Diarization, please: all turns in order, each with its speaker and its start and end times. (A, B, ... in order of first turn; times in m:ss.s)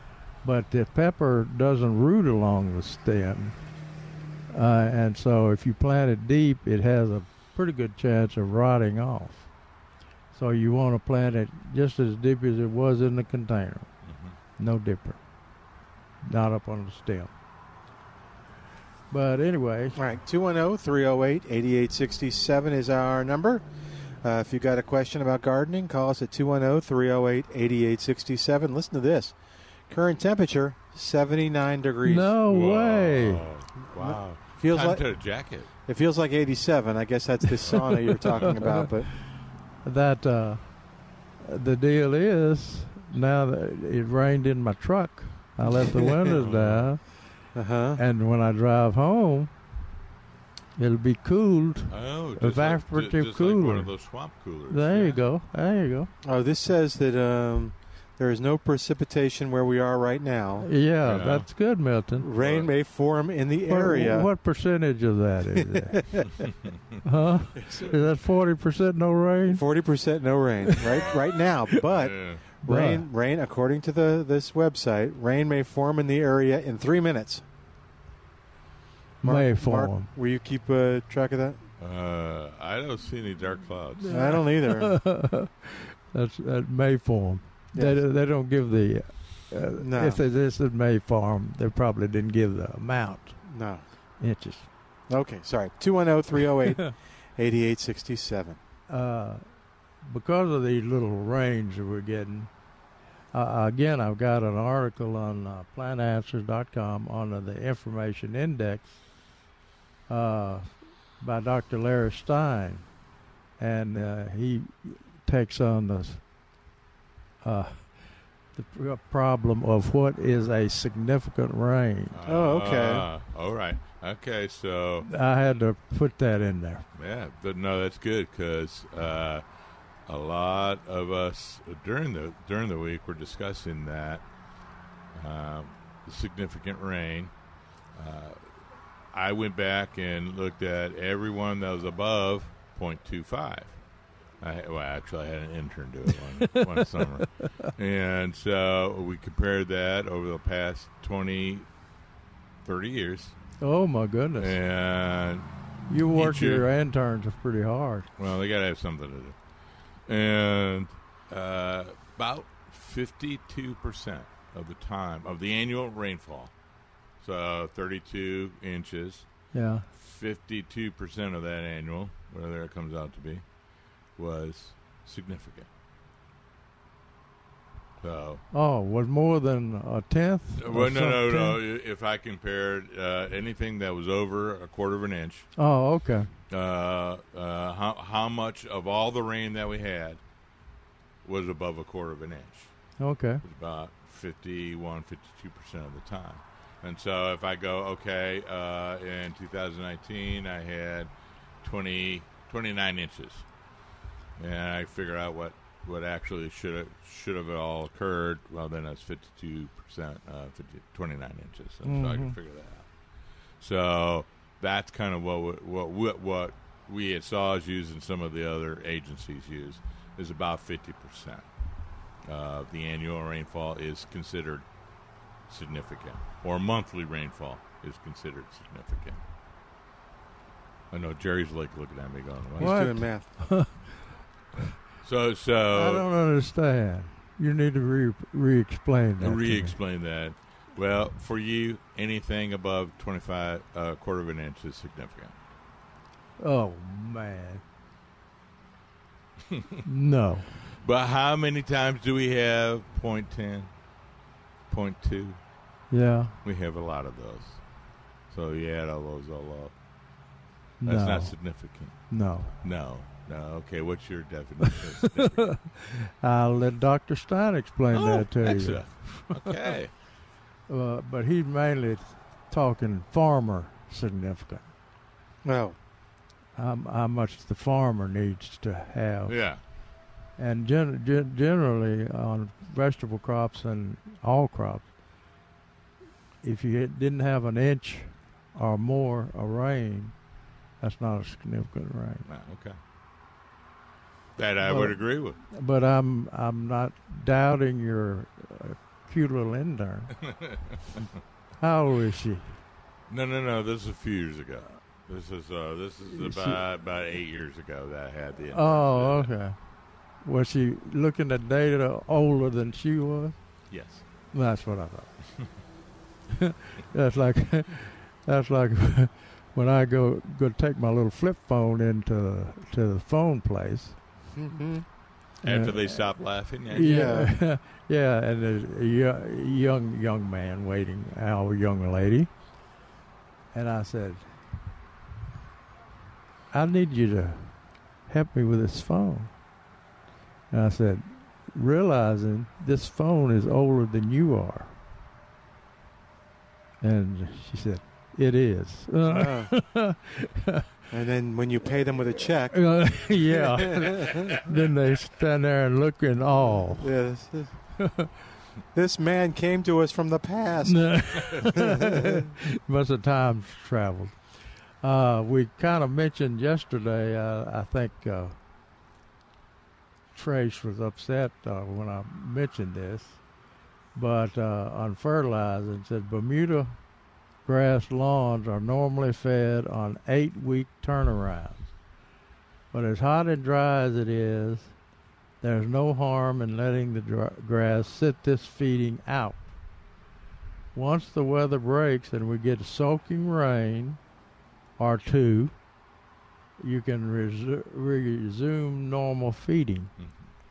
0:00.4-0:03.6 A
0:04.5-0:09.5 A
0:10.3-0:13.9 A
0:14.1-0:14.3 B
0:14.6-0:15.2 A
0:16.2-0:17.3 A
0:19.1-0:20.0 A
0:19.9-0:23.6 C
0:24.2-0:29.4 C
0:29.9-0:32.3 C
0:32.0-0:33.5 A
0:32.4-0:35.7 B
0:33.8-0:35.0 C
0:35.8-0:39.1 C
0:37.7-0:38.9 A
0:39.8-0:40.6 A
0:41.4-0:47.0 A
0:45.9-0:46.2 C
0:46.3-0:46.8 B
0:47.5-0:48.0 C
0:48.0-0:49.5 A
0:50.8-0:53.9 A
0:51.9-0:55.2 B
0:54.7-0:56.1 A
0:56.2-1:00.7 C
1:00.6-1:02.3 A
1:01.0-1:01.5 B
1:02.2-1:04.3 C
1:02.4-1:02.7 B
1:03.6-1:06.2 A
1:05.6-1:06.3 C
1:07.0-1:09.6 A
1:07.6-1:07.9 C
1:09.5-1:17.4 C
1:11.9-1:12.4 B
1:12.6-1:13.1 A
1:19.2-1:20.1 A
1:19.2-1:21.6 C
1:21.8-1:24.2 B
1:24.0-1:33.4 A
1:24.1-1:24.9 C
1:27.7-1:28.0 C
1:29.8-1:30.2 C
1:33.4-1:33.8 C
1:34.2-1:34.7 A
1:35.1-1:38.6 C
1:36.7-1:36.9 A
1:38.9-1:39.4 A
1:40.0-1:42.5 A
1:43.3-1:49.0 A
1:50.1-1:50.7 A
1:51.2-1:52.9 A
1:53.6-1:56.2 A
1:57.4-1:58.0 A
1:58.5-2:02.2 A
2:02.1-2:05.1 B
2:02.3-2:03.0 C
2:05.0-2:06.9 A
2:07.0-2:09.4 B
2:10.1-2:14.2 B
2:15.1-2:17.3 B
2:18.0-2:18.4 B
2:19.1-2:23.8 B
2:24.4-2:31.6 B
2:26.4-2:27.7 A
2:32.6-2:33.3 B
2:33.6-2:34.6 A
2:34.4-2:35.5 B
2:35.9-2:38.1 A
2:36.1-2:36.7 B
2:38.2-2:39.4 B
2:40.1-2:46.5 B
2:47.2-2:49.2 B
2:49.5-2:49.9 A
2:49.9-2:53.4 B
2:54.2-2:55.7 B
2:58.0-2:58.4 B
2:58.5-3:01.6 A
3:00.6-3:05.5 B
3:05.6-3:06.3 A
3:06.5-3:10.2 B
3:11.2-3:12.7 B
3:13.0-3:13.4 A
3:13.4-3:21.1 B
3:21.6-3:23.4 B
3:24.4-3:32.9 B
3:31.8-3:32.4 A
3:33.6-3:41.4 B
3:42.2-3:44.6 B
3:45.5-3:49.2 B
3:50.9-3:52.9 B
3:52.6-3:53.3 C
3:52.6-3:53.9 A
3:55.0-3:56.0 B
3:55.7-3:59.8 A
3:59.2-4:05.4 B
4:06.4-4:07.6 A
4:09.8-4:10.5 A
4:10.8-4:13.7 B
4:14.7-4:15.4 B
4:15.9-4:16.3 A
4:16.4-4:17.6 B
4:18.3-4:19.7 B
4:20.8-4:21.4 A
4:20.8-4:22.0 B
4:22.1-4:22.5 A
4:22.6-4:25.6 B
4:24.7-4:29.7 A
4:27.9-4:29.9 B
4:30.7-4:34.7 A
4:35.4-4:35.8 C
4:36.6-4:39.4 A
4:39.3-4:39.6 B
4:40.4-4:44.9 A
4:46.4-4:50.1 A
4:50.8-4:52.2 A
4:52.2-4:52.8 B
4:54.4-4:55.4 B
4:54.6-5:00.1 A
5:00.3-5:00.8 B
5:01.6-5:02.6 A
5:03.1-5:09.3 B
5:06.1-5:06.6 A
5:08.5-5:09.6 A
5:10.2-5:13.4 A
5:13.7-5:14.0 B
5:14.3-5:15.2 A
5:16.4-5:24.0 A
5:24.3-5:24.8 C
5:25.4-5:27.2 B
5:25.4-5:32.3 A
5:26.8-5:27.3 C
5:33.5-5:34.3 A
5:36.5-5:37.5 A
5:38.1-5:39.3 A
5:40.5-5:44.7 A
5:46.8-5:50.6 A
5:49.0-5:49.5 C
5:50.9-5:54.4 C
5:52.5-5:56.9 A
5:56.7-5:57.5 C
5:57.8-5:58.1 A
5:58.7-6:02.3 C
6:00.6-6:04.1 A
6:04.8-6:08.4 A
6:10.1-6:13.2 A
6:13.9-6:16.7 A
6:17.4-6:21.7 A
6:22.7-6:24.7 A
6:25.4-6:29.5 A
6:30.7-6:34.0 A
6:34.8-6:35.5 A
6:36.6-6:39.9 A
6:40.0-6:40.2 B